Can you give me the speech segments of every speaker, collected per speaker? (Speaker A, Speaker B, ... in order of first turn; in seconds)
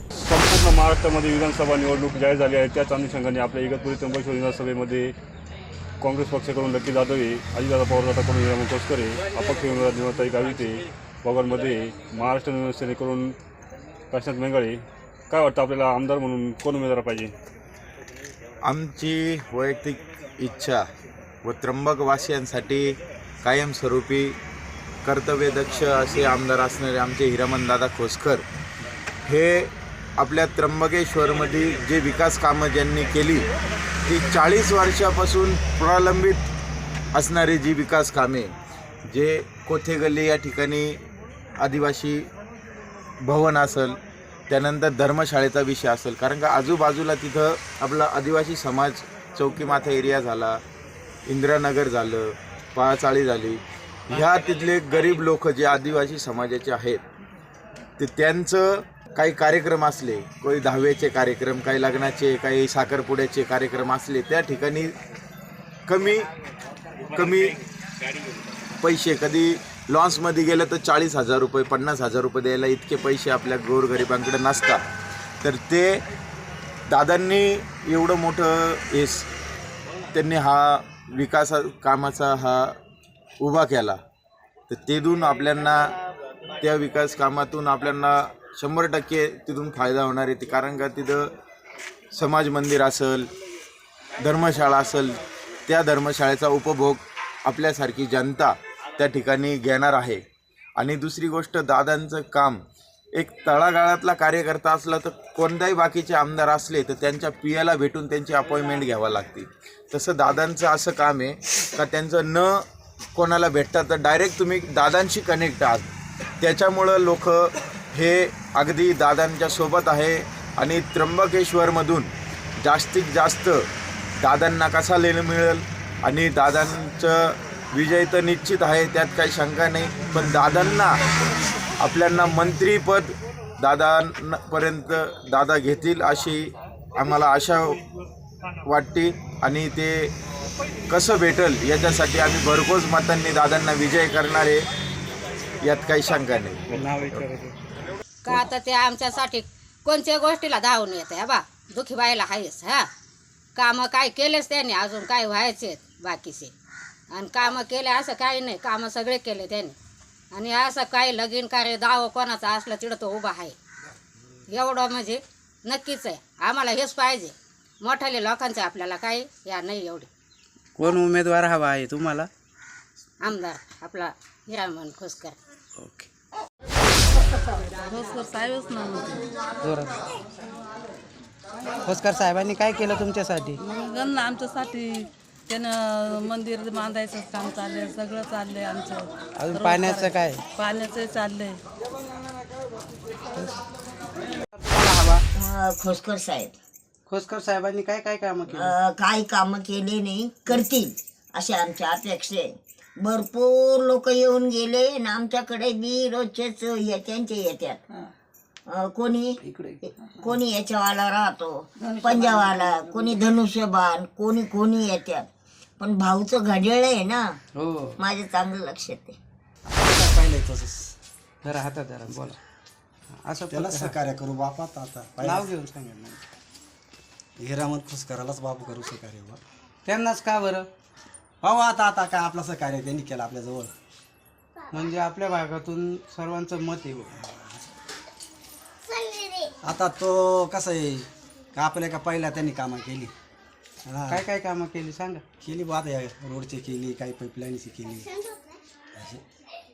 Speaker A: 0.2-5.1, 6.0-13.3, 14.1-17.3, 146.8-147.2
Speaker B: 18.6-20.8, 21.4-24.3, 25.0-28.4, 29.2-33.5, 34.0-36.4, 37.1-38.5, 39.1-41.0, 41.6-42.2, 43.2-44.0, 44.5-50.6, 51.3-57.0, 58.0-64.9, 65.9-66.3, 67.1-67.5, 68.8-74.8, 75.4-76.0, 76.9-79.3, 80.1-82.7, 83.4-84.0, 84.7-85.9, 86.6-91.3, 92.1-93.3, 94.2-100.2, 100.8-102.6, 103.1-112.6, 113.1-123.7, 124.2-131.0, 131.8-137.8, 138.6-140.1, 140.9-144.7, 145.6-147.2
Speaker C: 146.7-147.2, 170.8-172.3, 175.8-176.1, 179.6-179.9, 181.8-183.6, 189.4-190.4, 194.6-195.2, 197.1-198.7, 209.5-209.7, 217.5-218.0, 221.4-222.4, 223.2-224.0, 225.2-226.2, 229.8-230.7, 234.7-237.1, 244.1-245.2
Speaker D: 148.2-152.9, 153.6-156.5, 157.1-159.7, 160.3-163.6, 164.5-170.1, 173.2-175.3
Speaker E: 177.7-179.2, 183.6-191.6
Speaker F: 195.3-196.5, 198.5-202.5, 203.0-207.8, 208.7-209.4, 210.0-215.2, 215.8-217.2, 218.0-219.2
Speaker G: 219.7-220.9, 223.5-225.5, 227.4-229.4, 231.4-233.7, 237.1-237.7, 239.6-243.1, 243.8-244.2, 245.4-248.1, 249.0-249.2